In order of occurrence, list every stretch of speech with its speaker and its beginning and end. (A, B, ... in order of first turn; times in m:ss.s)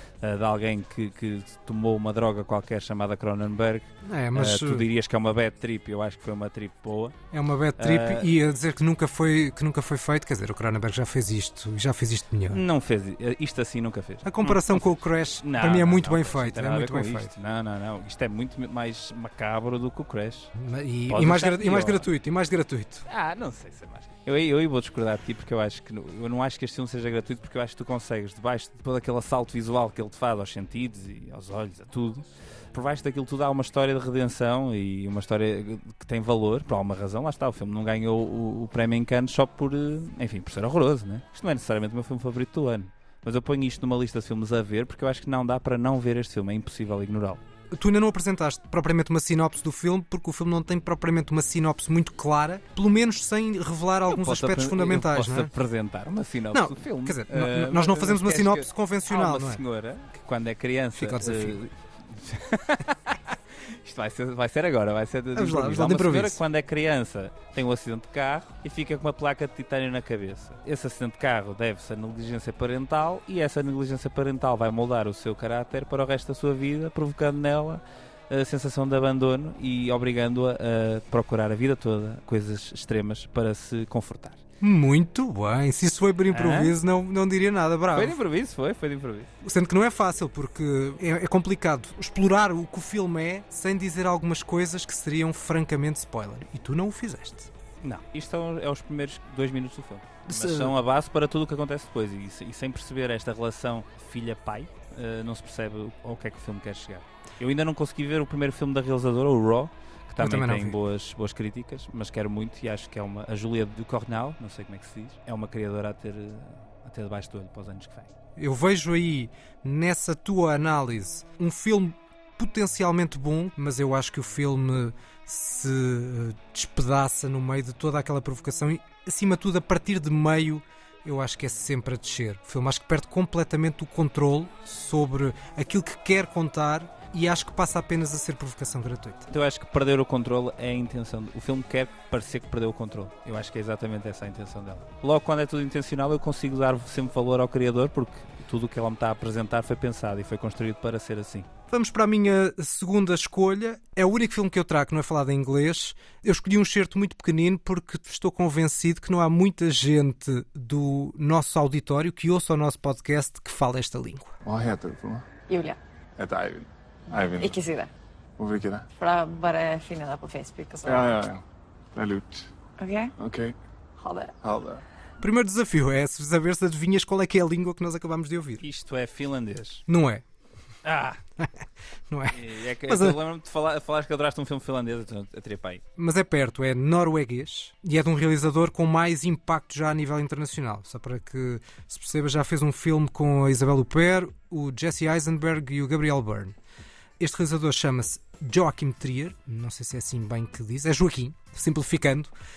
0:00.2-0:07.2 A
0:04.0-0:04.8 B
0:07.3-0:12.6 B
0:07.8-0:08.3 A
0:12.5-0:14.8 A
0:14.2-0:17.3 B
0:15.4-0:20.5 A
0:20.6-0:23.1 B
0:21.1-0:22.1 A
0:23.1-0:47.4 A
0:47.7-0:55.5 B
0:54.1-1:24.4 A
0:56.5-0:59.6 B
1:00.9-1:01.6 B
1:05.3-1:06.4 B
1:24.6-1:28.2 B
1:26.3-1:26.8 A
1:27.9-1:29.3 A
1:29.4-1:37.5 B
1:37.8-1:58.1 A
1:40.3-1:40.7 B
1:50.2-1:50.8 B
1:58.4-2:19.3 B
2:19.3-2:31.5 A
2:31.7-2:44.3 B
2:44.4-2:45.3 C
2:45.5-2:45.8 D
2:46.2-2:47.6 C
2:47.2-2:47.9 D
2:48.4-2:48.9 C
2:49.0-2:51.2 D
2:50.8-2:51.4 C
2:51.9-2:52.5 C
2:52.8-2:53.1 D
2:53.2-2:53.5 C
2:54.0-2:54.3 D
2:54.4-2:54.8 C
2:55.2-2:58.6 B
2:58.6-2:59.8 A
2:59.9-3:00.2 B
3:00.8-3:01.2 A
3:02.1-3:03.2 B
3:02.3-3:05.8 A
3:06.0-3:16.5 B
3:17.2-3:22.3 B